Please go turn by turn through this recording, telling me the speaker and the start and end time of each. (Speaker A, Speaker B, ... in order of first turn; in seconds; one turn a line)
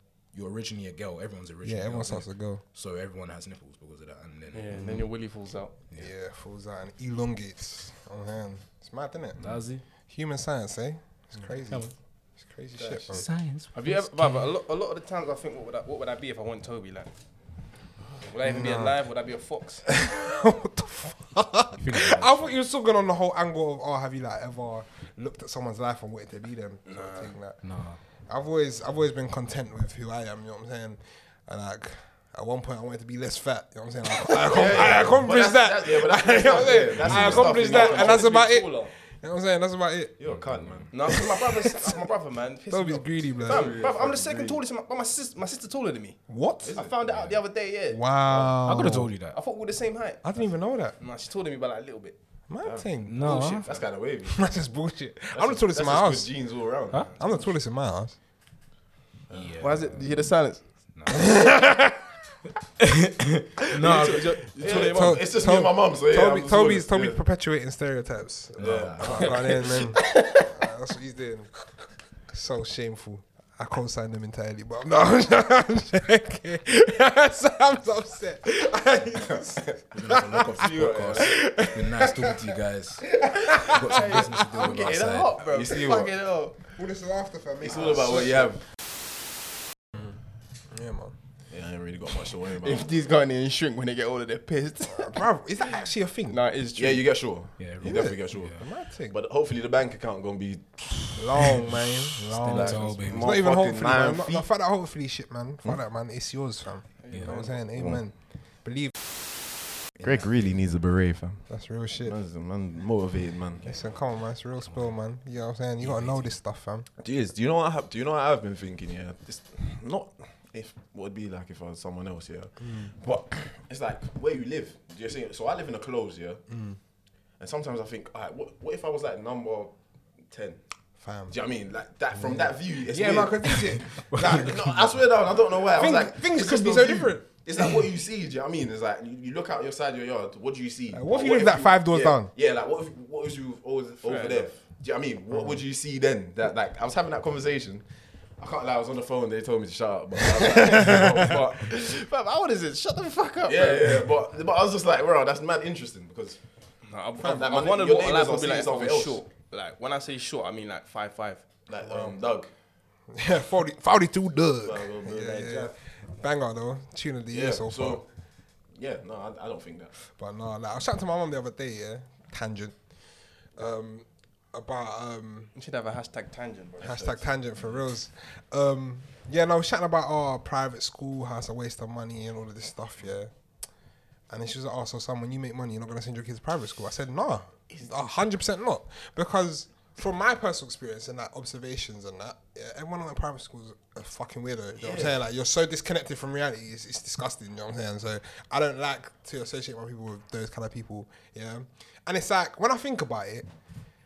Speaker A: 0.3-5.0
Speaker B: 1.6-2.6
Speaker C: 4.5-5.7
Speaker B: 5.9-9.4
Speaker A: 9.4-9.8
Speaker B: 10.1-13.3
Speaker C: 12.8-17.1
Speaker A: 13.1-14.4
Speaker C: 18.2-19.9
Speaker B: 18.4-18.9
Speaker B: 19.9-27.6
Speaker A: 21.8-22.5
Speaker C: 26.9-27.3
Speaker A: 27.6-28.0
Speaker B: 28.3-40.1
Speaker D: 34.4-38.3
Speaker A: 37.0-37.6
Speaker C: 37.3-38.9
Speaker D: 40.2-41.2
Speaker C: 40.9-46.2
Speaker B: 41.1-42.0
Speaker B: 42.7-43.7
Speaker D: 43.4-44.6
Speaker B: 46.3-46.7
Speaker D: 46.6-47.4
Speaker C: 46.7-48.0
Speaker B: 47.9-49.1
Speaker A: 48.6-49.4
Speaker C: 49.3-50.3
Speaker B: 50.2-51.0
Speaker C: 51.0-52.1
Speaker B: 52.5-53.7
Speaker D: 52.6-54.5
Speaker A: 53.1-53.6
Speaker C: 53.2-53.6
Speaker B: 54.2-56.3
Speaker D: 55.3-57.1
Speaker C: 57.0-57.4
Speaker B: 57.1-58.1
Speaker D: 59.3-59.5
Speaker A: 59.3-60.3
Speaker C: 59.6-60.6
Speaker A: 60.9-61.4
Speaker B: 61.1-62.0
Speaker A: 62.8-64.4
Speaker C: 63.7-65.2
Speaker D: 64.5-67.2
Speaker B: 64.6-71.5
Speaker A: 68.6-69.5
Speaker D: 68.6-70.0
Speaker C: 69.9-70.5
Speaker B: 72.3-82.5
Speaker A: 79.9-85.4
Speaker D: 80.4-81.4
Speaker B: 83.2-84.3
Speaker C: 83.8-86.6
Speaker D: 84.7-86.1
Speaker B: 86.8-88.5
Speaker D: 87.6-88.6
Speaker B: 90.7-91.1
Speaker D: 91.5-92.9
Speaker C: 92.6-95.2
Speaker B: 94.9-96.4
Speaker C: 96.3-97.0
Speaker D: 96.8-101.7
Speaker A: 97.6-98.6
Speaker B: 97.8-99.1
Speaker B: 101.1-108.9
Speaker A: 102.1-103.3
Speaker D: 102.4-104.5
Speaker C: 107.0-107.6
Speaker A: 107.1-107.4
Speaker D: 107.7-108.0
Speaker D: 110.0-113.8
Speaker B: 111.5-112.2
Speaker B: 113.6-116.9
Speaker A: 115.8-116.2
Speaker D: 117.0-126.5
Speaker B: 122.6-122.9
Speaker B: 126.5-126.8
Speaker D: 127.4-129.7
Speaker D: 130.3-130.6
Speaker B: 131.0-131.3
Speaker D: 131.3-147.8
Speaker B: 132.9-134.6
Speaker A: 133.4-134.9
Speaker B: 135.7-137.2
Speaker B: 140.9-142.3
Speaker C: 144.0-144.5
Speaker D: 148.4-151.8
Speaker C: 150.4-154.0
Speaker D: 153.4-156.4
Speaker C: 156.8-161.5
Speaker D: 157.2-159.2
Speaker D: 161.7-162.5
Speaker B: 161.8-162.1
Speaker B: 163.1-168.0
Speaker D: 164.6-165.7
Speaker D: 167.3-168.1
Speaker D: 168.7-169.9
Speaker B: 170.1-172.8
Speaker B: 173.6-175.5
Speaker C: 175.5-177.3
Speaker B: 176.8-183.3
Speaker B: 184.3-203.5
Speaker D: 187.7-188.0
Speaker D: 194.8-195.2